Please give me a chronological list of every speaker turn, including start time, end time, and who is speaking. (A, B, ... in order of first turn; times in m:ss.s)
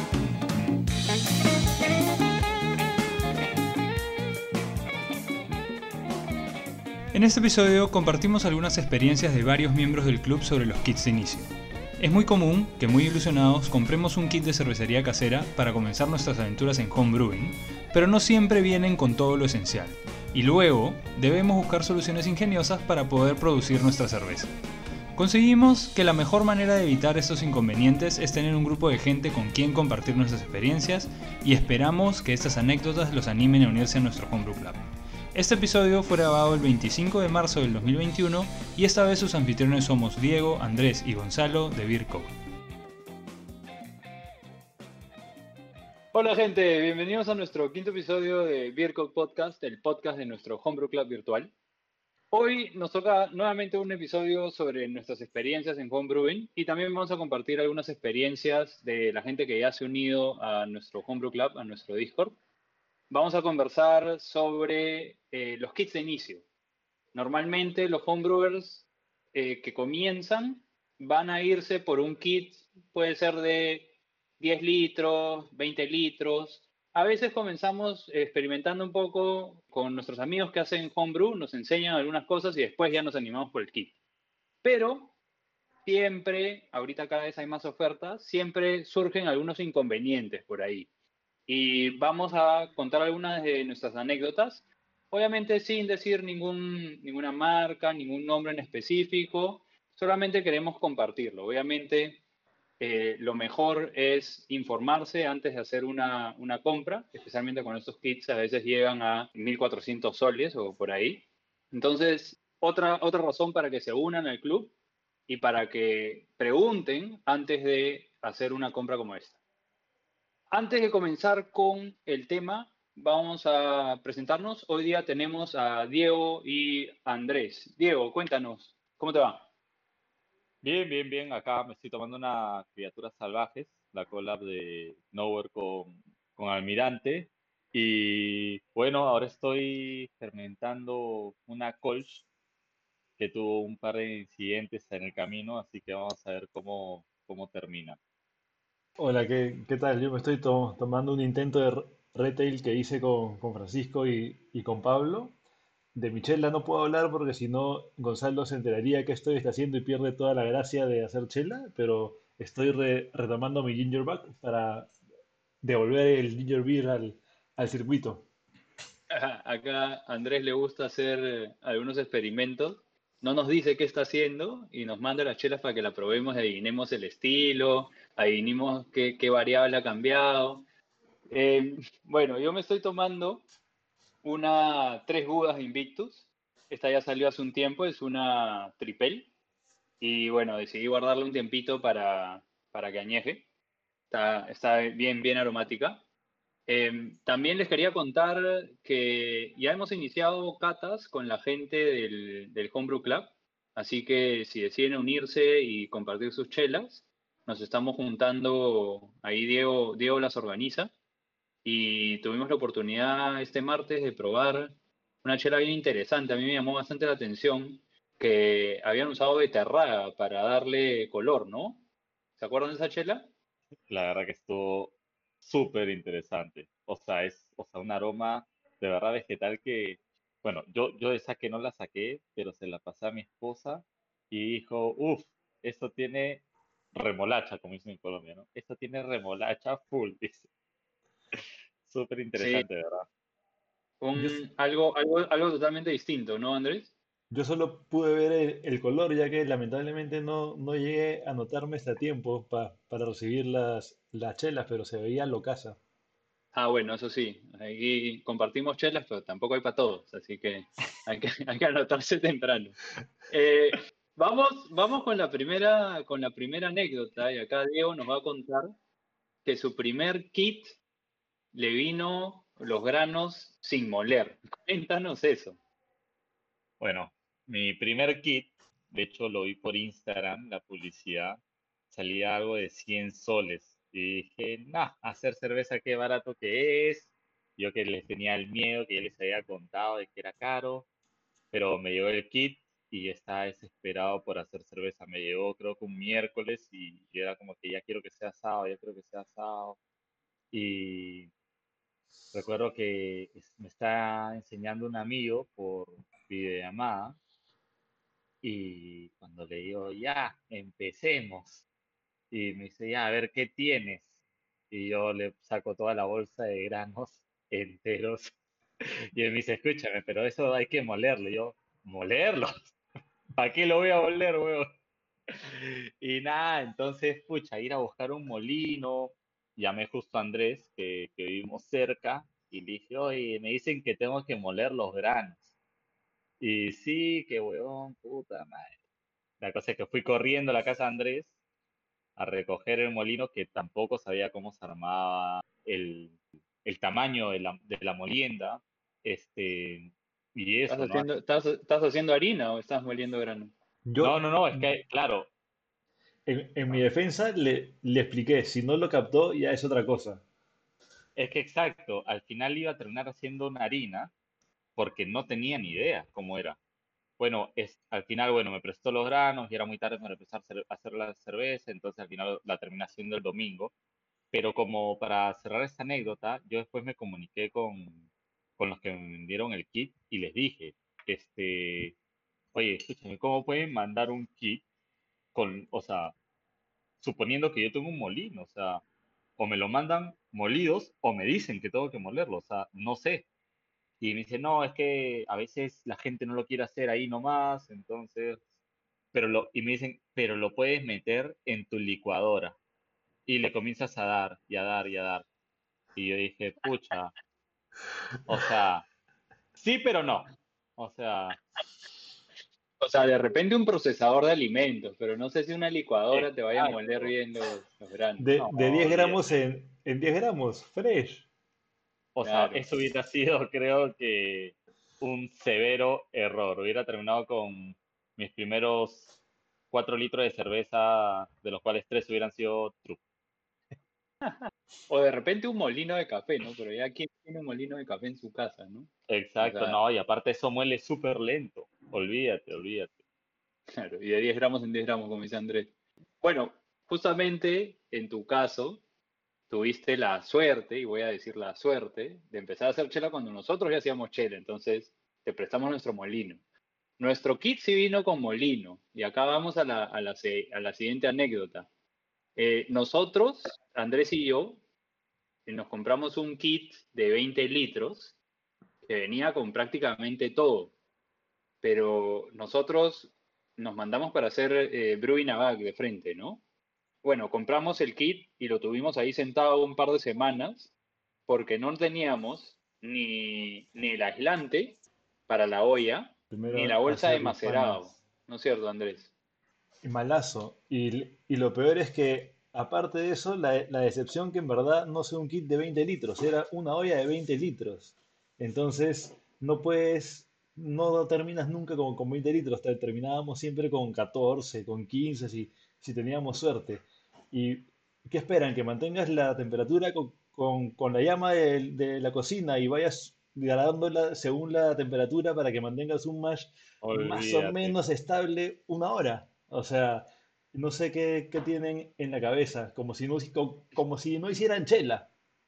0:07.1-0:24.5 A
0:25.1-0:42.3 A
0:46.1-0:51.5 B
0:52.3-1:02.4 B
1:03.1-1:06.4 B
1:07.1-1:23.9 B
1:24.6-1:25.1 B
1:25.8-1:30.9 B
1:31.5-1:42.2 B
1:42.8-1:54.7 B
1:55.3-1:59.4 B
2:00.5-2:09.4 B
2:10.6-2:22.2 C
2:23.2-2:28.0 C
2:29.0-2:35.3 D
2:35.9-2:44.9 D
2:45.6-2:48.2 D
2:49.1-3:00.6 B
3:01.3-3:03.4 B
3:04.2-3:09.3 B
3:10.0-3:13.4 B
3:14.1-3:16.0 B
3:16.7-3:30.9 B
3:31.6-3:41.8 B
3:42.4-3:43.3 B
3:43.9-4:00.5 C
4:01.8-4:03.1 C
4:02.4-4:02.6 B
4:04.0-4:06.9 B
4:07.3-4:15.8 D
4:16.5-4:22.8 B
4:23.3-4:28.7 B
4:29.4-4:30.8 B
4:31.5-4:35.6 B
4:36.8-4:41.4 C
4:41.9-4:50.8 C
4:51.5-4:59.8 C
5:00.5-5:01.3 C
5:02.3-5:07.2 C
5:08.4-5:11.6 C
5:12.3-5:14.1 C
5:14.7-5:22.7 C
5:23.4-5:24.7 C
5:25.3-5:35.5 C
5:36.4-5:38.7 C
5:39.4-5:41.3 C
5:42.2-5:51.1 C
5:50.7-5:53.5 B
5:53.8-5:54.7 D
5:54.0-5:55.3 C
5:56.2-6:00.2 D
6:01.2-6:04.1 C
6:04.8-6:06.6 C
6:07.2-6:13.7 C
6:14.3-6:18.0 C
6:18.6-6:22.0 C
6:22.5-6:24.6 C
6:25.3-6:26.1 C
6:27.0-6:28.8 C
6:29.4-6:33.2 C
6:34.0-6:38.4 C
6:39.1-6:42.6 C
6:43.2-6:45.2 C
6:45.9-6:47.1 C
6:48.3-6:48.8 C
6:49.6-6:51.4 C
6:52.8-6:59.0 B
6:56.1-6:57.1 C
6:58.2-7:01.2 D
6:58.4-6:59.2 C
7:02.1-7:09.1 C
7:02.2-7:02.6 B
7:09.7-7:13.0 C
7:14.2-7:18.9 B
7:19.1-7:23.0 C
7:19.4-7:19.8 B
7:23.7-7:28.8 B
7:29.5-7:36.4 B
7:37.0-7:41.7 B
7:42.4-7:44.6 B
7:45.4-7:48.2 B
7:48.8-7:50.7 B
7:51.6-7:56.4 B
7:57.0-8:00.7 B
8:01.3-8:09.1 B
8:06.3-8:07.9 D
8:09.8-8:45.1 D
8:36.8-8:37.8 C